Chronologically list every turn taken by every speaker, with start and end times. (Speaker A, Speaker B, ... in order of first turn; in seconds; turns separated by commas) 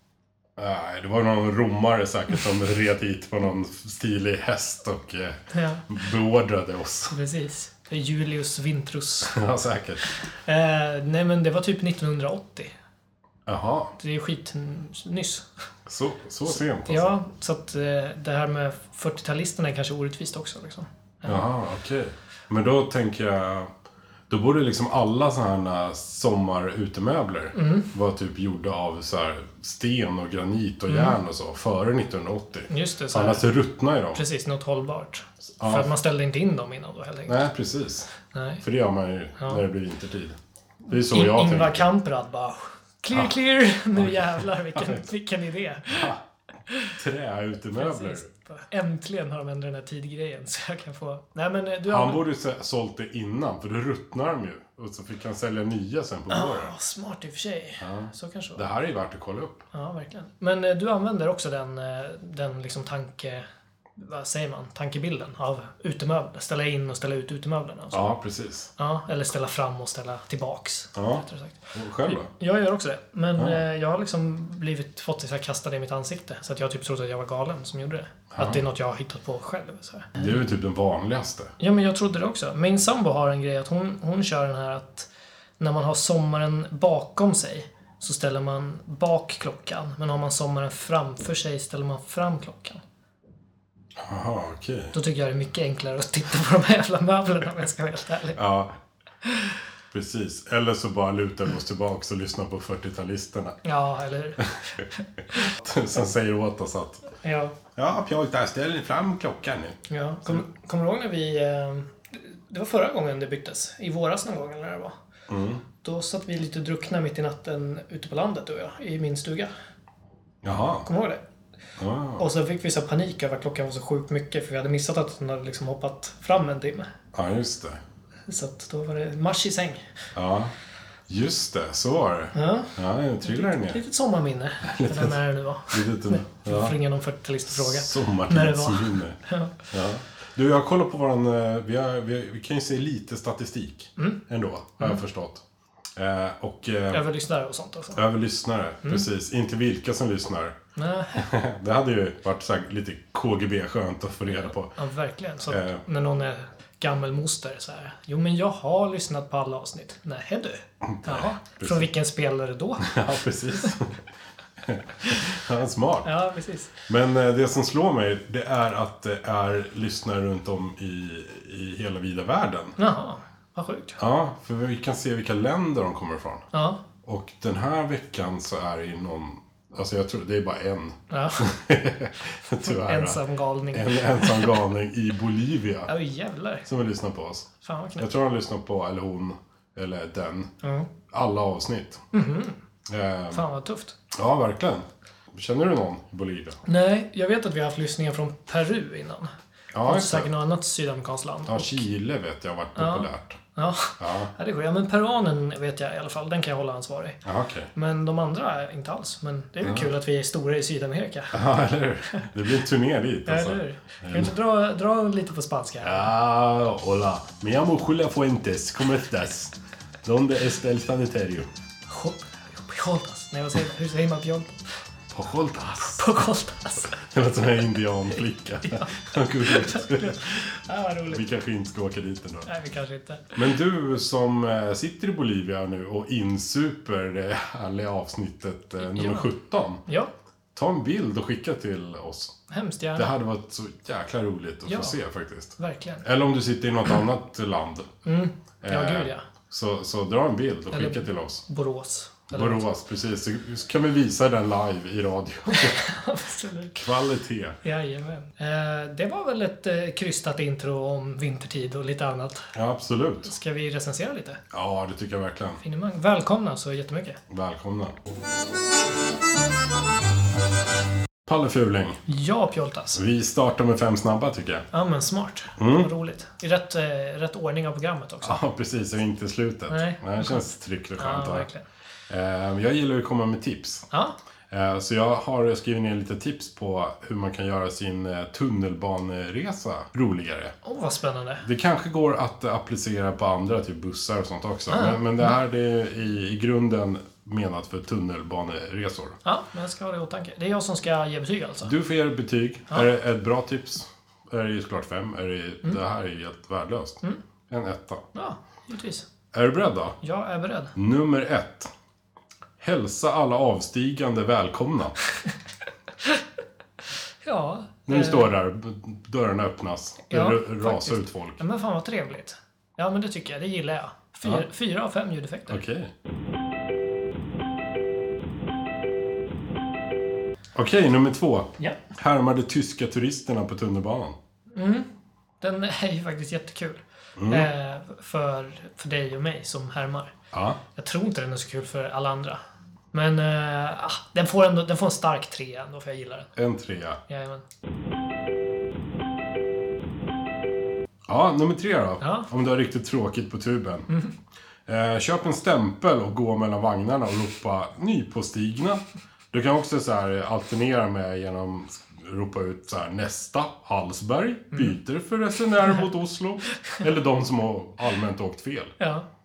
Speaker A: 0.6-7.2, Speaker B: 5.5-5.9, Speaker B: 7.1-9.4, Speaker A: 9.3-10.1, Speaker B: 10.3-12.7, Speaker A: 13.5-13.9, Speaker B: 14.0-15.5, Speaker A: 15.9-17.1, Speaker B: 16.5-21.5, Speaker A: 21.2-23.7, Speaker A: 24.3-34.2, Speaker B: 27.5-27.9, Speaker B: 30.9-31.2, Speaker B: 32.7-33.5, Speaker B: 34.1-37.5, Speaker A: 35.6-35.9, Speaker A: 37.3-40.4, Speaker B: 38.3-38.6, Speaker B: 40.9-46.1, Speaker A: 40.9-41.9, Speaker A: 43.9-45.1, Speaker A: 45.9-46.2, Speaker B: 46.7-47.0, Speaker A: 46.9-48.3, Speaker B: 47.7-52.2, Speaker A: 51.9-56.7, Speaker B: 56.3-58.6, Speaker A: 57.8-59.6, Speaker B: 59.7-63.5, Speaker B: 64.0-68.1, Speaker A: 67.9-68.7, Speaker B: 68.8-80.2, Speaker A: 71.0-72.3, Speaker A: 78.3-78.6, Speaker A: 80.2-81.5, Speaker B: 81.6-85.1, Speaker B: 85.6-92.8, Speaker A: 94.0-95.0, Speaker B: 94.9-98.4, Speaker A: 98.3-98.8, Speaker B: 99.2-99.6, Speaker A: 99.9-103.6, Speaker B: 103.6-105.5, Speaker A: 105.3-107.1, Speaker B: 107.2-107.6, Speaker A: 107.8-110.5, Speaker B: 109.9-115.0, Speaker A: 115.3-115.6, Speaker B: 115.8-119.5, Speaker A: 120.4-120.9, Speaker B: 120.8-121.2, Speaker A: 121.8-122.3, Speaker B: 122.2-126.9, Speaker A: 127.1-127.8, Speaker B: 128.3-129.9, Speaker A: 130.2-130.5, Speaker A: 131.1-133.8, Speaker B: 132.3-139.7, Speaker A: 134.6-135.2, Speaker A: 135.7-136.8, Speaker A: 137.5-139.2, Speaker A: 139.7-145.4, Speaker B: 144.0-144.2, Speaker A: 146.0-147.1, Speaker B: 146.9-148.0, Speaker A: 147.9-150.6, Speaker B: 150.8-151.3, Speaker A: 151.2-154.8, Speaker B: 154.8-163.8, Speaker A: 155.5-155.8, Speaker A: 160.8-161.9, Speaker A: 162.8-164.0, Speaker A: 164.6-166.1, Speaker B: 166.0-166.8, Speaker A: 166.9-172.8, Speaker B: 172.8-174.0, Speaker A: 174.0-176.5, Speaker B: 176.5-176.8, Speaker A: 177.1-185.9, Speaker B: 181.1-181.5, Speaker B: 182.6-184.6, Speaker B: 185.9-186.7, Speaker A: 186.7-190.5, Speaker B: 187.6-188.1, Speaker B: 190.6-190.9, Speaker A: 191.1-192.0, Speaker B: 192.1-192.6, Speaker A: 192.9-193.5, Speaker B: 193.3-193.9, Speaker A: 194.1-196.6, Speaker B: 196.7-201.9, Speaker A: 199.7-200.3, Speaker A: 201.5-203.4, Speaker B: 202.8-207.2, Speaker A: 204.0-204.3, Speaker A: 207.2-207.7, Speaker B: 207.8-211.4, Speaker A: 209.6-209.9, Speaker A: 211.3-214.3, Speaker B: 213.3-216.1, Speaker A: 215.8-221.5, Speaker B: 221.9-224.6, Speaker A: 225.1-226.0, Speaker B: 225.8-227.0, Speaker A: 226.9-230.4, Speaker B: 228.6-231.3, Speaker A: 231.1-232.5, Speaker B: 232.4-233.5, Speaker A: 233.3-239.8, Speaker B: 238.8-239.3, Speaker A: 240.6-242.4, Speaker B: 242.5-243.1, Speaker A: 242.9-247.9, Speaker B: 244.7-245.0, Speaker B: 245.6-246.1, Speaker B: 248.1-249.2, Speaker A: 248.6-251.4, Speaker B: 250.7-252.7, Speaker A: 252.3-255.8, Speaker B: 255.5-256.8, Speaker A: 256.8-257.6, Speaker B: 257.6-262.5, Speaker A: 262.5-263.3, Speaker B: 263.2-264.4, Speaker A: 264.5-265.6, Speaker B: 265.6-267.2, Speaker A: 267.3-268.0, Speaker A: 271.2-272.0, Speaker B: 272.1-273.0, Speaker A: 272.9-274.7, Speaker B: 274.7-278.4, Speaker A: 275.6-275.9, Speaker A: 278.2-281.5, Speaker B: 279.7-281.6, Speaker A: 282.1-283.9, Speaker B: 283.9-284.2, Speaker A: 284.5-290.6, Speaker B: 290.6-291.5, Speaker A: 291.4-299.2, Speaker B: 294.7-295.2, Speaker B: 299.2-301.7, Speaker A: 301.6-308.1, Speaker B: 308.1-309.1, Speaker A: 309.3-310.0, Speaker B: 310.0-310.7, Speaker A: 310.8-311.7, Speaker A: 312.6-315.0, Speaker B: 317.2-318.3, Speaker A: 317.9-321.4, Speaker B: 320.1-325.6, Speaker A: 325.5-325.9, Speaker A: 330.6-334.2, Speaker B: 334.5-334.9, Speaker B: 335.4-340.1, Speaker A: 337.2-337.5, Speaker A: 340.3-340.6, Speaker B: 340.8-342.4, Speaker B: 342.9-346.3, Speaker A: 346.4-347.0, Speaker B: 347.1-347.4, Speaker A: 351.1-353.9, Speaker B: 352.0-352.3, Speaker A: 354.7-368.8, Speaker B: 368.8-369.1